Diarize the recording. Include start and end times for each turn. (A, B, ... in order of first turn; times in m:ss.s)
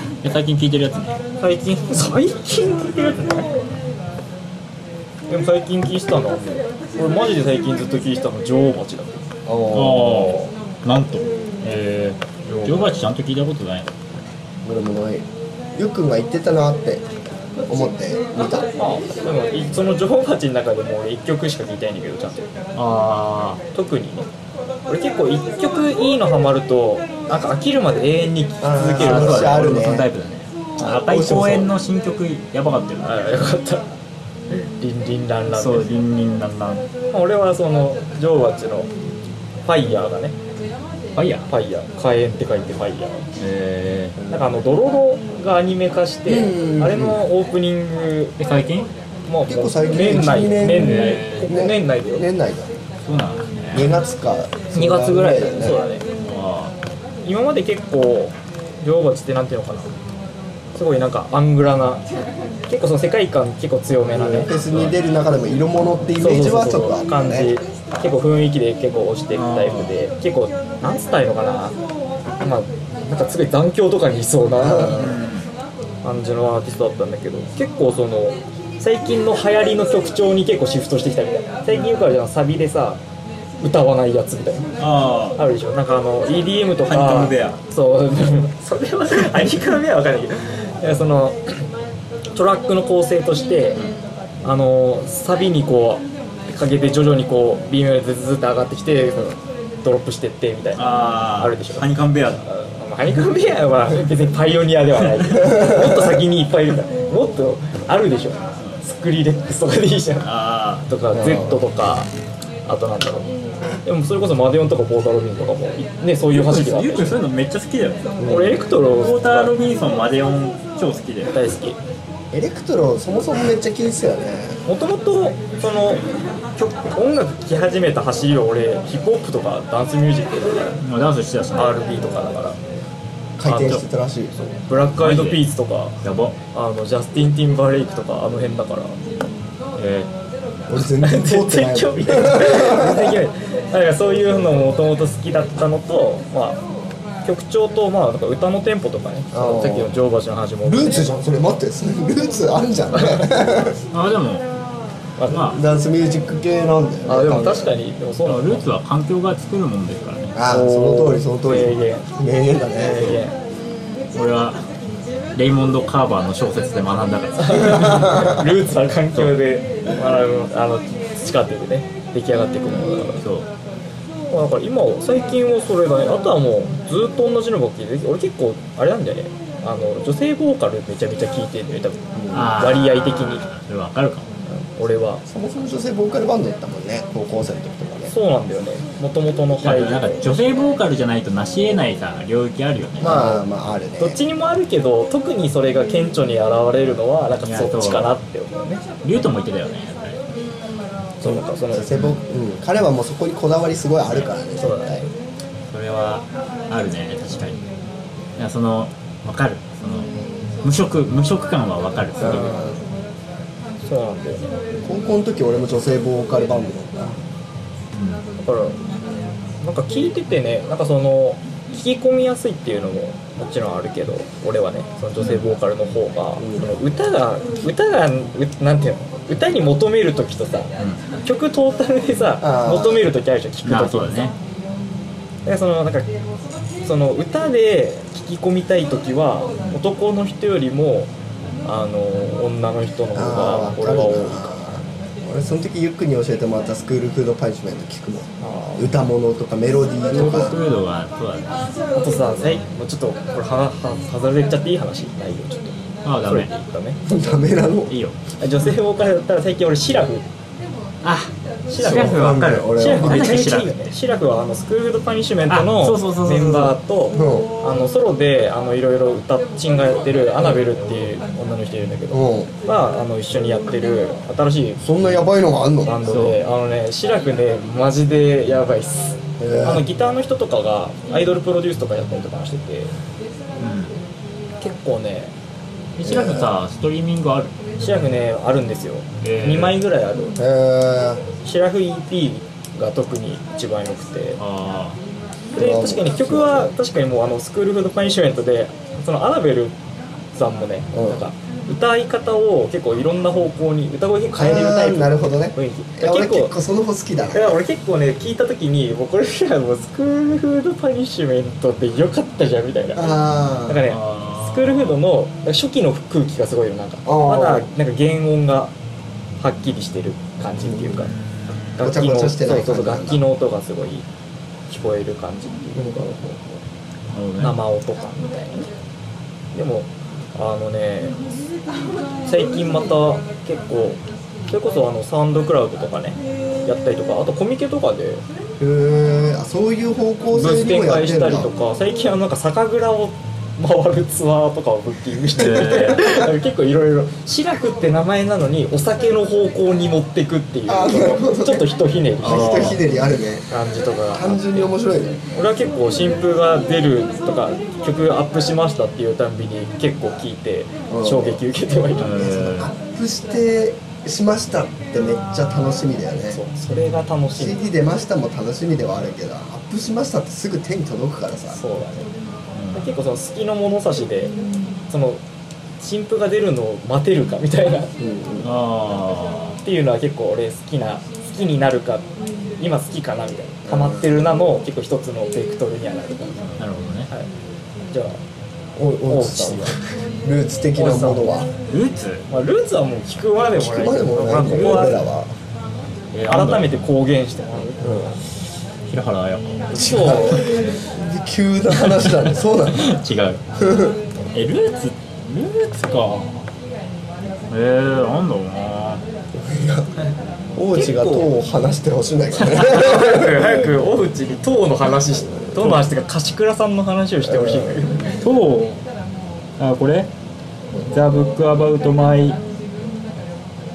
0:00.2-0:01.2 A
0:01.4-0:03.5 B
0:05.3-0:09.2 B
0:09.5-0:10.5 C
0:09.7-0:13.9 A
0:12.5-0:13.0 B
0:14.6-0:17.1 C
0:17.7-0:18.7 C
0:18.7-0:22.5 B
0:22.7-0:23.6 A
0:23.7-0:24.3 B
0:24.9-0:29.8 B
0:28.6-0:30.1 C
0:29.0-0:33.4 A
0:30.8-0:31.7 C
0:33.0-0:33.9 B
0:34.5-0:36.0 B
0:35.5-0:36.9 A
0:37.1-0:38.9 B
0:39.6-0:40.4 B
0:41.2-0:41.5 A
0:41.5-0:43.3 B
0:43.4-0:44.2 A
0:44.2-0:44.6 C
0:44.3-0:48.3 B
0:46.3-0:47.2 C
0:48.4-0:48.9 A
0:49.3-0:52.3 B
0:49.5-0:52.7 C
0:50.7-0:51.5 A
0:53.0-0:54.0 A
0:53.7-0:55.8 C
0:54.7-0:56.1 B
0:56.2-0:56.8 A
0:57.2-1:00.0 B
1:00.8-1:02.1 B
1:02.7-1:04.5 B
1:04.1-1:07.5 C
1:04.7-1:05.0 A
1:06.2-1:11.8 B
1:09.3-1:09.9 A
1:12.4-1:15.0 B
1:14.6-1:15.2 C
1:14.9-1:15.5 A
1:16.0-1:23.0 B
1:21.7-1:22.1 A
1:23.6-1:24.7 B
1:24.8-1:25.4 A
1:25.4-1:31.6 B
1:26.9-1:27.6 A
1:32.3-1:33.9 B
1:34.4-1:41.9 B
1:40.8-1:42.5 A
1:42.4-1:50.3 B
1:45.5-1:46.1 C
1:50.2-1:50.9 A
1:50.9-1:52.1 B
1:51.1-1:51.6 C
1:52.7-1:53.3 B
1:53.8-1:57.2 B
1:56.3-1:58.2 A
1:58.2-1:58.7 C
1:58.3-1:59.5 B
1:58.7-2:01.3 A
2:01.3-2:01.8 B
2:02.3-2:04.6 C
2:04.7-2:06.0 B
2:06.6-2:10.8 B
2:10.8-2:11.8 A
2:11.6-2:12.6 B
2:13.4-2:14.6 C
2:13.5-2:13.8 B
2:14.7-2:16.0 B
2:14.9-2:15.4 A
2:16.0-2:16.4 A
2:16.5-2:19.0 B
2:19.8-2:20.1 A
2:20.7-2:23.2 C
2:21.0-2:26.6 B
2:27.2-2:31.0 B
2:29.3-2:29.9 C
2:30.6-2:33.8 C
2:33.9-2:34.5 A
2:35.2-2:35.6 B
2:35.3-2:35.6 A
2:35.5-2:37.7 C
2:37.1-2:38.7 B
2:38.2-2:40.3 A
2:40.3-2:43.2 C
2:40.5-2:42.1 B
2:42.8-2:43.4 B
2:44.1-2:44.7 A
2:45.4-2:48.4 A
2:47.4-2:53.2 B
2:47.6-2:48.4 C
2:52.7-2:53.0 C
2:53.2-2:53.5 A
2:54.3-3:03.5 B
3:02.2-3:02.7 C
3:02.3-3:04.3 A
3:04.5-3:05.2 B
3:05.3-3:08.1 C
3:08.1-3:10.2 B
3:09.6-3:13.3 A
3:13.0-3:14.2 C
3:13.0-3:13.4 B
3:14.0-3:18.8 B
3:17.4-3:18.1 A
3:19.0-3:20.2 A
3:21.2-3:22.0 B
3:21.2-3:25.0 C
3:21.9-3:22.2 A
3:24.6-3:25.1 B
3:25.7-3:27.7 A
3:28.4-3:32.6 A
3:32.2-3:32.8 C
3:32.2-3:32.7 B
3:33.8-3:34.6 B
3:34.8-3:37.2 C
3:37.9-3:38.2 A
3:38.4-3:38.8 B
3:39.6-3:54.3 B
3:45.2-3:45.4 A
3:46.4-3:46.7 C
3:50.8-3:51.1 A
3:52.4-3:53.1 C
3:53.6-3:54.4 A
3:55.4-3:56.1 B
3:56.8-4:01.1 B
4:01.6-4:04.5 B
4:03.1-4:10.6 C
4:08.4-4:08.9 B
4:10.1-4:11.6 A
4:11.9-4:17.0 B
4:16.0-4:16.7 A
4:17.1-4:18.0 C
4:17.9-4:18.8 A
4:18.4-4:20.2 B
4:21.0-4:23.9 A
4:21.7-4:34.8 B
4:21.8-4:23.4 C
4:25.5-4:26.8 A
4:27.1-4:27.5 C
4:32.1-4:32.5 C
4:34.8-4:36.3 C
4:35.8-4:42.9 B
4:36.1-4:36.4 A
4:39.4-4:39.8 C
4:43.6-4:44.0 A
4:44.6-4:45.3 B
4:46.0-4:47.6 A
4:46.0-4:46.5 C
4:47.8-4:50.4 B
4:49.2-4:49.8 A
4:50.4-4:51.2 C
4:51.4-4:54.4 B
4:54.4-4:55.0 A
4:55.5-4:59.8 B
4:55.6-4:56.7 C
5:00.3-5:06.6 B
5:00.9-5:01.3 C
5:04.3-5:07.6 C
5:07.3-5:13.2 B
5:13.0-5:13.8 C
5:13.7-5:18.7 B
5:13.8-5:15.0 A
5:17.0-5:17.7 C
5:19.4-5:21.1 B
5:20.6-5:21.1 C
5:21.0-5:21.9 A
5:21.8-5:24.1 B
5:21.8-5:23.2 C
5:24.7-5:26.0 B
5:25.8-5:26.6 C
5:27.1-5:27.6 A
5:27.4-5:28.7 B
5:29.5-5:31.2 B
5:32.2-5:38.2 B
5:38.6-5:41.5 C
5:40.3-5:52.8 B
5:45.4-5:46.2 A
5:50.7-5:53.5 C
5:52.2-5:52.8 A
5:53.5-5:54.7 B
5:54.1-5:55.2 C
5:55.3-6:02.4 B
6:00.9-6:01.4 C
6:01.9-6:02.8 A
6:01.9-6:06.4 C
6:06.3-6:07.6 B
6:07.4-6:11.6 C
6:11.5-6:12.1 B
6:12.5-6:13.0 A
6:12.8-6:14.4 B
6:14.9-6:15.2 B
6:15.8-6:17.9 B
6:18.0-6:18.5 C
6:18.4-6:19.6 A
6:19.6-6:27.3 B
6:23.7-6:24.2 C
6:26.6-6:27.1 A
6:27.9-6:28.2 B
6:28.8-6:31.5 C
6:29.1-6:29.8 B
6:30.8-6:31.3 B
6:31.7-6:32.3 A
6:32.3-6:35.0 B
6:33.6-6:35.3 C
6:36.1-6:36.9 A
6:36.3-6:37.8 B
6:37.8-6:38.2 C
6:38.9-6:40.1 A
6:39.7-6:40.6 B
6:39.7-6:42.9 C
6:42.0-6:43.4 A
6:43.6-6:44.0 C
6:44.3-6:46.4 A
6:47.5-6:49.0 A
6:49.3-6:49.9 C
6:50.6-6:53.5 C
6:50.7-6:51.3 B
6:52.5-6:58.2 B
6:57.2-6:58.0 C
6:58.2-6:58.8 A
6:59.6-7:00.1 A
7:00.9-7:02.4 A